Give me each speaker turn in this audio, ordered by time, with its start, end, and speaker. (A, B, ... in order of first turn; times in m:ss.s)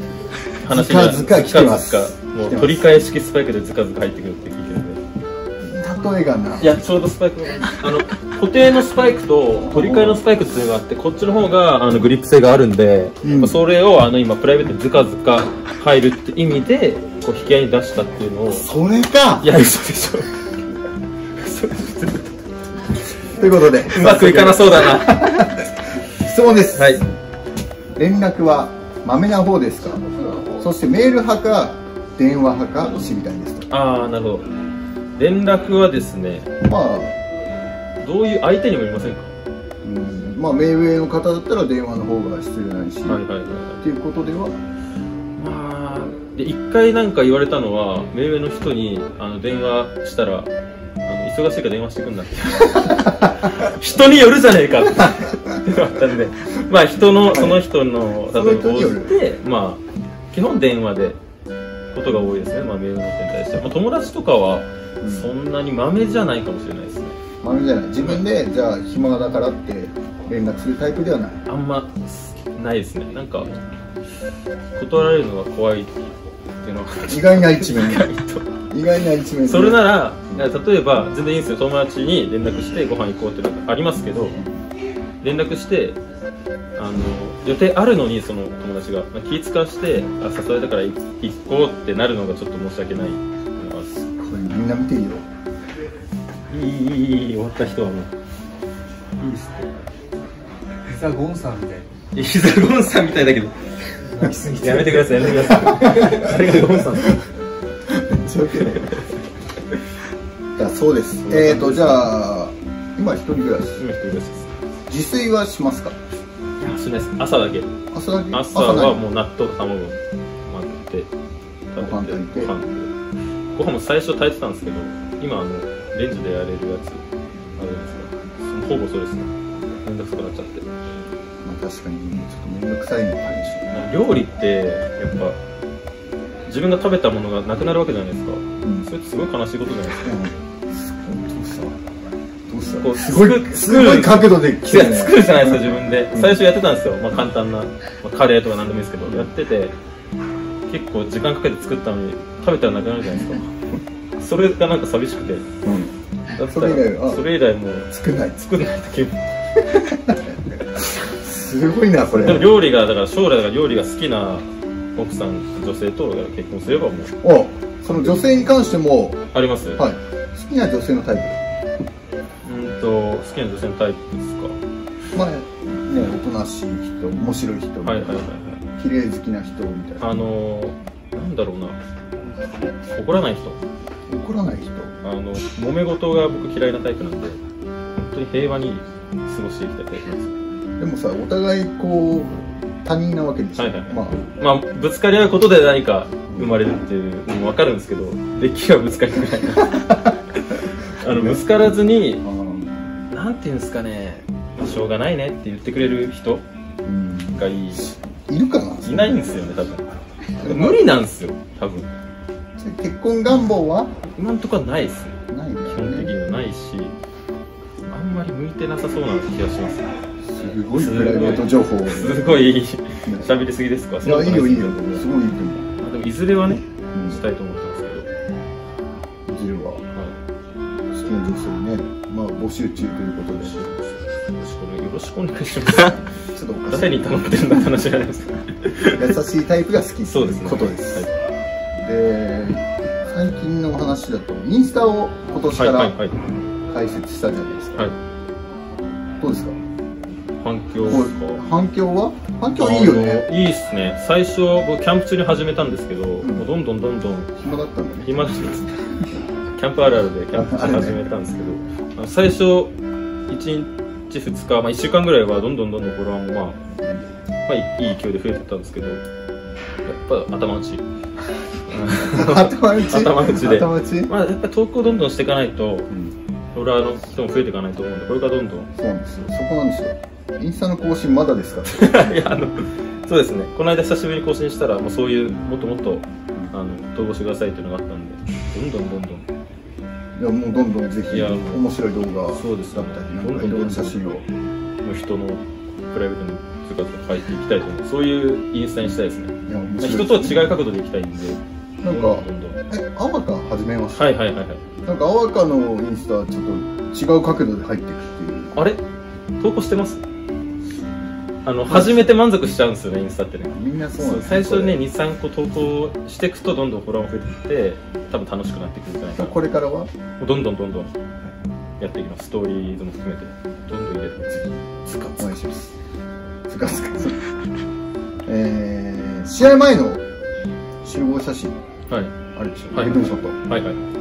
0:00.6-0:05.0 A
0:00.6-0:02.8 B
0:05.6-0:06.8 B
0:06.6-0:18.7 A
0:09.7-0:10.2 B
0:13.2-0:13.6 B
0:18.5-0:19.5 B
0:19.4-0:20.3 A
0:21.4-0:22.3 A
0:23.3-0:27.0 B
0:23.9-0:25.4 A
0:26.7-0:27.0 A
0:28.0-0:33.7 B
0:33.7-0:34.5 A
0:35.2-0:36.5 A
0:36.6-0:37.1 B
0:38.0-0:39.3 A
0:39.8-0:43.2 B
0:43.1-0:43.8 A
0:43.8-0:44.6 B
0:45.4-0:50.5 A
0:51.1-0:59.8 A
0:52.9-0:53.3 B
0:57.3-0:57.6 B
0:58.3-0:59.2 B
1:00.3-1:01.2 A
1:01.9-1:07.1 A
1:05.0-1:05.3 B
1:07.4-1:11.4 B
1:11.5-1:13.5 A
1:14.8-1:16.1 A
1:16.6-1:18.5 A
1:17.1-1:18.1 B
1:18.7-1:20.5 B
1:19.5-1:24.3 A
1:25.2-1:26.0 A
1:26.8-1:33.9 A
1:34.0-1:35.2 B
1:36.5-1:38.1 A
1:40.9-1:41.9 C
1:42.1-1:43.5 A
1:44.1-1:45.5 C
1:44.6-1:47.2 A
1:45.3-1:47.2 B
1:47.9-1:49.0 B
1:48.6-1:49.1 A
1:50.6-1:53.8 B
1:51.2-1:52.1 A
1:53.8-1:54.5 A
1:54.9-1:56.0 B
1:56.6-1:57.7 A
1:57.9-1:59.0 B
1:58.3-2:00.0 A
2:00.5-2:01.1 A
2:01.7-2:02.9 A
2:01.8-2:02.5 B
2:03.6-2:07.0 A
2:07.6-2:09.3 A
2:09.8-2:10.7 A
2:11.4-2:13.8 B
2:13.7-2:15.4 A
2:16.5-2:20.2 A
2:18.6-2:18.9 B
2:20.0-2:21.8 B
2:22.5-2:26.4 B
2:22.8-2:29.8 A
2:30.7-2:33.5 A
2:34.2-2:35.5 A
2:35.6-2:37.2 B
2:36.4-2:39.2 A
2:37.9-2:38.4 B
2:39.9-2:40.2 B
2:41.0-2:42.5 B
2:42.1-2:44.4 A
2:45.0-2:47.1 A
2:47.2-2:49.2 B
2:49.3-2:49.8 A
2:49.8-2:51.4 B
2:52.4-2:54.6 A
2:55.1-2:58.2 B
2:57.9-2:58.6 A
2:58.8-3:00.1 B
3:00.0-3:01.8 A
3:02.9-3:03.6 A
3:04.1-3:04.9 B
3:05.0-3:07.4 A
3:08.0-3:10.3 A
3:10.8-3:14.2 B
3:13.6-3:19.8 A
3:16.3-3:16.6 B
3:19.7-3:20.0 B
3:20.9-3:22.2 A
3:21.0-3:21.5 B
3:22.2-3:23.0 B
3:23.1-3:26.4 A
3:26.8-3:29.4 B
3:27.4-3:27.9 A
3:28.8-3:29.9 A
3:30.4-3:30.8 B
3:30.4-3:31.9 A
3:32.6-3:33.9 B
3:34.1-3:36.9 A
3:35.3-3:36.1 B
3:37.9-3:39.9 A
3:40.3-3:42.4 B
3:40.8-3:45.1 A
3:44.0-3:45.7 B
3:45.8-3:48.1 A
3:46.9-3:47.2 B
3:49.3-3:49.8 B
3:50.9-3:53.6 B
3:53.4-3:56.0 A
3:55.9-3:57.8 B
3:56.7-3:59.0 A
3:58.9-4:01.1 B
4:00.1-4:01.1 A
4:01.8-4:05.9 B
4:05.5-4:06.1 A
4:06.7-4:07.9 B
4:09.2-4:09.6 B
4:10.4-4:11.4 A
4:10.8-4:13.3 B
4:12.6-4:17.3 A
4:16.2-4:16.5 B
4:17.4-4:19.0 B
4:18.0-4:18.7 A
4:19.6-4:22.7 A
4:20.3-4:21.0 B
4:23.3-4:26.6 A
4:27.5-4:29.0 A
4:29.8-4:30.8 A
4:31.7-4:35.9 A
4:31.9-4:34.1 B
4:36.5-4:38.7 A
4:38.8-4:42.1 B
4:41.7-4:49.2 A
4:50.2-4:54.2 B
4:51.1-4:51.7 A
4:52.3-4:54.0 A
4:54.8-5:02.6 A
4:59.5-5:00.6 B
5:01.8-5:04.1 B
5:03.9-5:04.6 A
5:04.8-5:08.6 B
5:08.5-5:08.8 A
5:09.4-5:10.0 A
5:11.4-5:19.4 A
5:11.7-5:12.1 B
5:13.5-5:14.8 B
5:19.1-5:19.9 B
5:20.2-5:20.9 A
5:21.8-5:24.3 A
5:24.2-5:24.6 B
5:24.8-5:25.4 A
5:25.2-5:25.7 B
5:26.5-5:27.1 B
5:28.2-5:30.0 B
5:30.8-5:31.5 B
5:32.3-5:33.6 B
5:32.7-5:33.8 A